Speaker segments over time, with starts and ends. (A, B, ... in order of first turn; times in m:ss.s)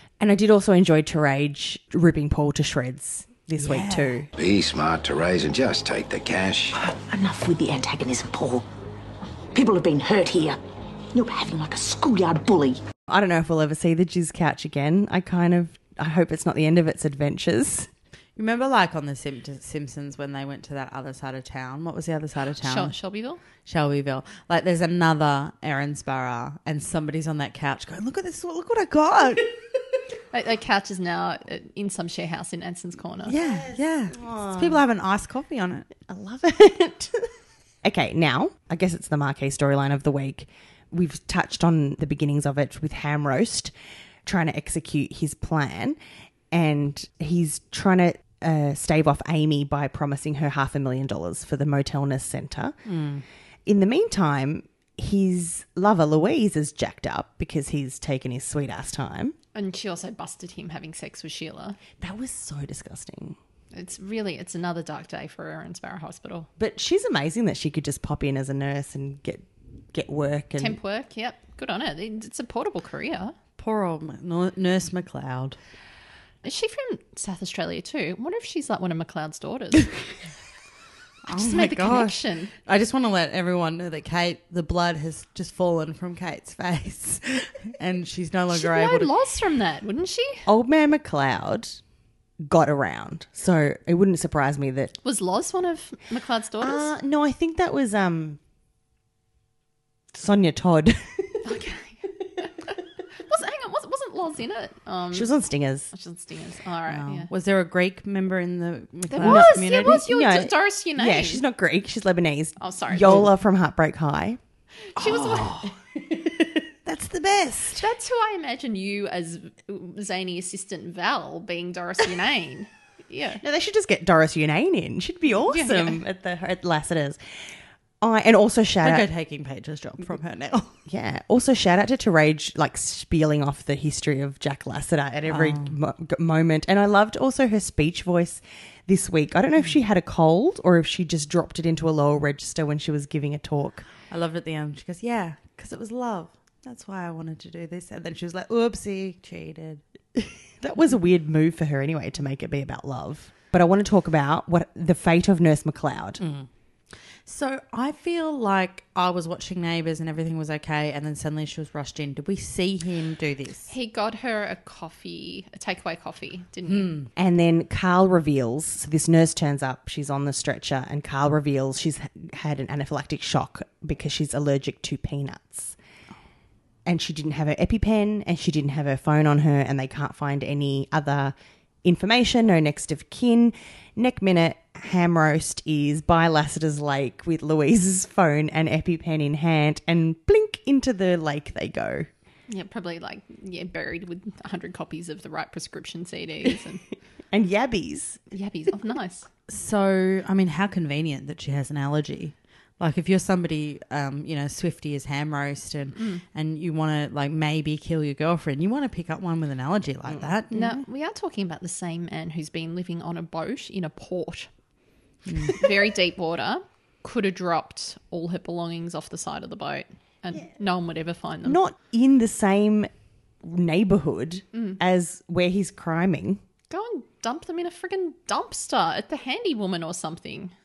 0:00.2-0:04.3 A
0:03.6-0:04.2 B
0:04.3-0:06.7 C
0:06.8-0:08.6 D
0:09.5-0:10.6 D
0:11.1-0:12.8 D
0:13.1-0:17.9 A
0:18.4-0:23.0 B
0:22.6-0:23.4 E
0:23.6-0:29.5 B
0:30.3-0:33.3 E
0:33.2-0:35.9 B
0:33.3-0:34.8 A
0:36.0-0:37.3 A
0:37.8-0:43.7 A
0:44.2-0:46.0 A
0:46.5-0:52.8 A
0:52.8-0:53.2 B
0:53.6-0:59.4 A
0:59.5-1:01.8 E
1:02.0-1:03.4 A
1:03.7-1:06.5 E
1:06.6-1:10.8 A
1:10.6-1:13.3 E
1:13.6-1:15.6 B
1:16.4-1:19.9 E
1:21.2-1:29.1 B
1:21.3-1:22.5 E
1:28.5-1:30.5 E
1:30.4-1:31.8 A
1:32.4-1:34.9 A
1:35.0-1:36.9 E
1:36.6-1:38.4 A
1:40.1-1:41.4 A
1:41.4-1:42.7 E
1:43.2-1:45.3 E
1:45.1-1:45.9 A
1:45.9-1:47.3 E
1:46.9-1:50.0 B
1:49.1-1:51.4 E
1:49.2-1:54.4 A
1:52.6-1:53.2 E
1:54.9-1:55.5 E
1:55.0-1:55.7 B
1:56.1-1:56.4 A
1:56.8-1:57.8 B
1:57.8-2:03.4 E
2:03.4-2:07.2 A
2:05.5-2:06.0 E
2:08.0-2:09.1 A
2:08.8-2:10.8 B
2:10.9-2:23.8 A
2:15.3-2:15.7 B
2:24.1-2:29.8 B
2:30.2-2:36.2 A
2:36.2-2:36.5 B
2:37.2-2:43.7 B
2:43.7-2:46.9 E
2:46.7-2:47.1 B
2:47.1-2:55.8 A
2:56.8-3:12.1 A
3:12.5-3:16.8 E
3:17.3-3:18.3 A
3:18.3-3:19.3 E
3:19.5-3:30.7 B
3:25.9-3:26.2 E
3:30.0-3:30.7 A
3:30.5-3:34.5 E
3:35.2-3:35.6 B
3:35.5-3:41.6 E
3:41.4-3:42.9 A
3:43.4-3:46.4 A
3:44.5-3:44.8 E
3:46.7-3:50.5 E